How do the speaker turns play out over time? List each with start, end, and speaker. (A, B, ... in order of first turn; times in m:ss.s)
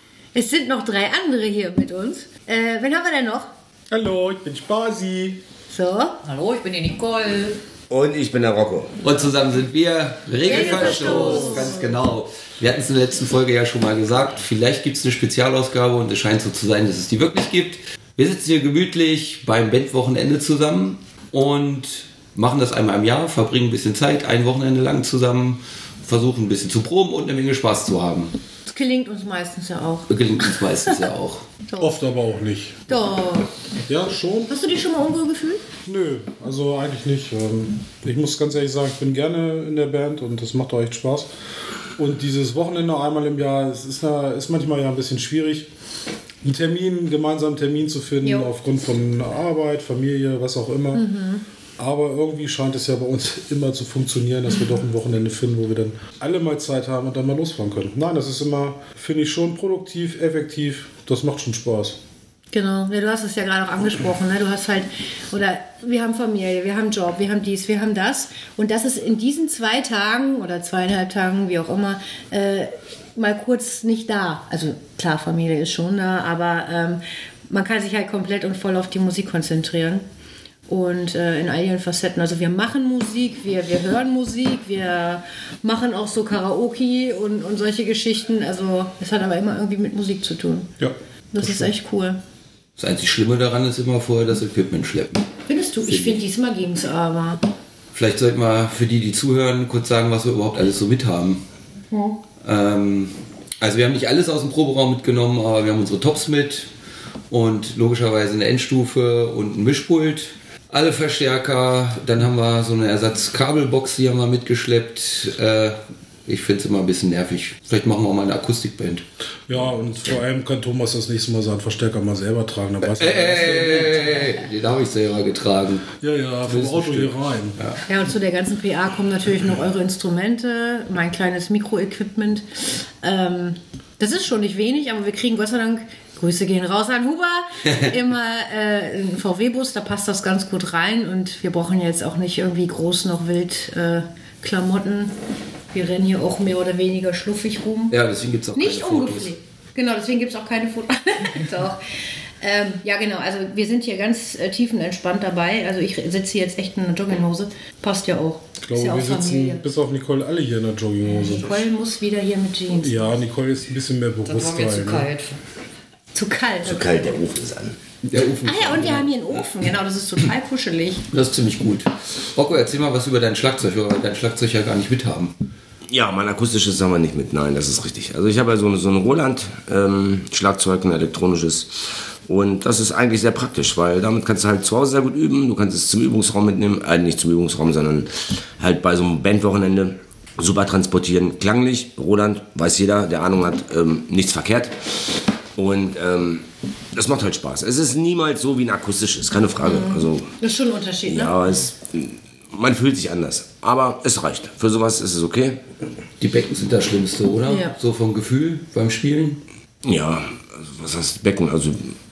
0:00.3-0:03.5 A
0:03.9-0:05.4 B
0:05.7-0:06.2 A
0:06.2-0:07.6 C
0:07.9-0:09.0 D
0:09.0-0:28.3 E
0:10.4-0:11.9 A
0:28.7-0:30.1 A
0:30.1-0:31.5 E
0:31.8-0:32.8 B
0:32.9-0:33.5 A
0:33.9-0:34.5 B
0:34.5-0:35.6 A
0:35.8-0:41.3 B
0:42.0-0:45.7 B
0:46.4-0:51.0 B
0:48.2-0:48.5 A
0:50.9-0:51.4 A
0:51.8-1:02.0 B
1:02.5-1:20.0 A
1:20.7-1:30.7 A
1:30.8-1:31.7 B
1:31.3-1:32.2 A
1:32.8-1:35.2 E
1:35.5-1:37.4 A
1:35.9-1:36.2 E
1:37.9-1:41.4 E
1:41.9-1:42.2 A
1:42.4-1:46.7 E
1:47.3-1:59.0 E
1:59.5-2:03.9 B
2:02.8-2:05.9 E
2:06.0-2:07.6 B
2:06.4-2:07.8 E
2:07.9-2:25.1 A
2:25.7-2:28.0 A
2:27.9-2:29.3 E
2:28.5-2:31.8 A
2:32.4-2:39.6 A
2:38.6-2:41.6 B
2:41.2-2:43.1 A
2:42.7-2:45.1 B
2:44.2-2:45.4 C
2:46.1-2:47.0 A
2:46.6-2:47.8 D
2:48.0-2:49.1 E
2:48.4-2:51.1 A
2:51.1-2:55.3 E
2:55.9-3:20.3 D
3:19.6-3:21.4 A
3:21.1-3:25.6 D
3:26.2-3:29.4 E
3:27.5-3:27.8 A
3:29.8-3:32.0 D